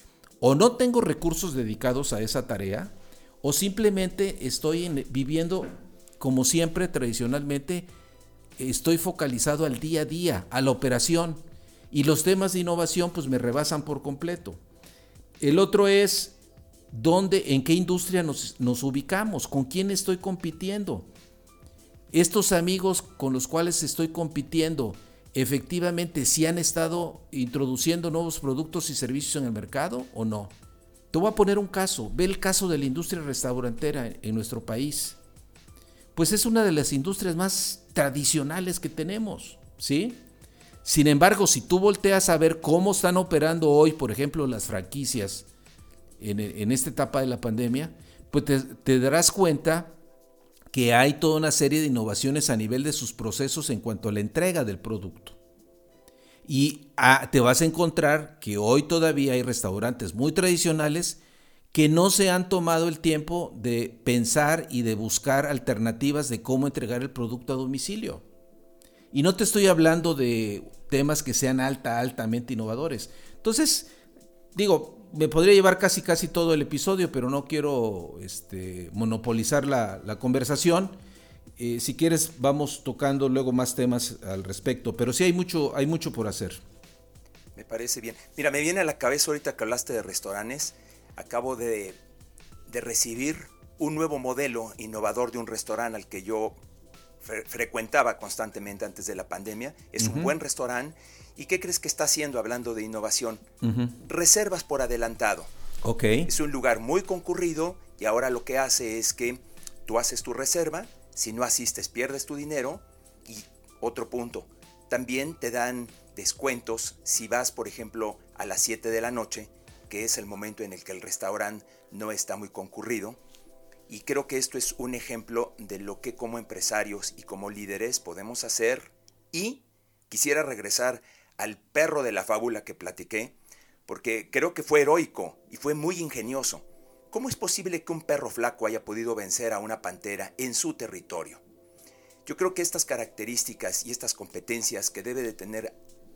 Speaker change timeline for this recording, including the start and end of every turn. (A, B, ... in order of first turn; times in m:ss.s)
0:00.4-0:07.9 A
0:08.6-0:14.6 A
0:15.4-0:16.4 A
0:16.9-0:21.1 A
0:22.1-0:30.5 A
0:31.1-0:35.2 A
0:36.1-0:40.2 A
0:40.8-0:45.5 A
0:46.2-0:50.0 A
0:50.7-0:55.4 A
0:56.4-1:01.2 A
1:01.7-1:08.2 A
1:09.1-1:13.9 A
1:14.6-1:21.0 A
1:21.6-1:26.6 A
1:27.6-1:32.0 B
1:32.7-1:36.6 B
1:37.2-1:43.4 B
1:40.0-1:40.3 A
1:43.6-1:44.0 A
1:44.0-1:45.5 B
1:45.8-1:46.3 A
1:46.3-2:03.2 B
2:03.9-2:13.4 B
2:13.9-2:21.4 B
2:22.3-2:25.8 B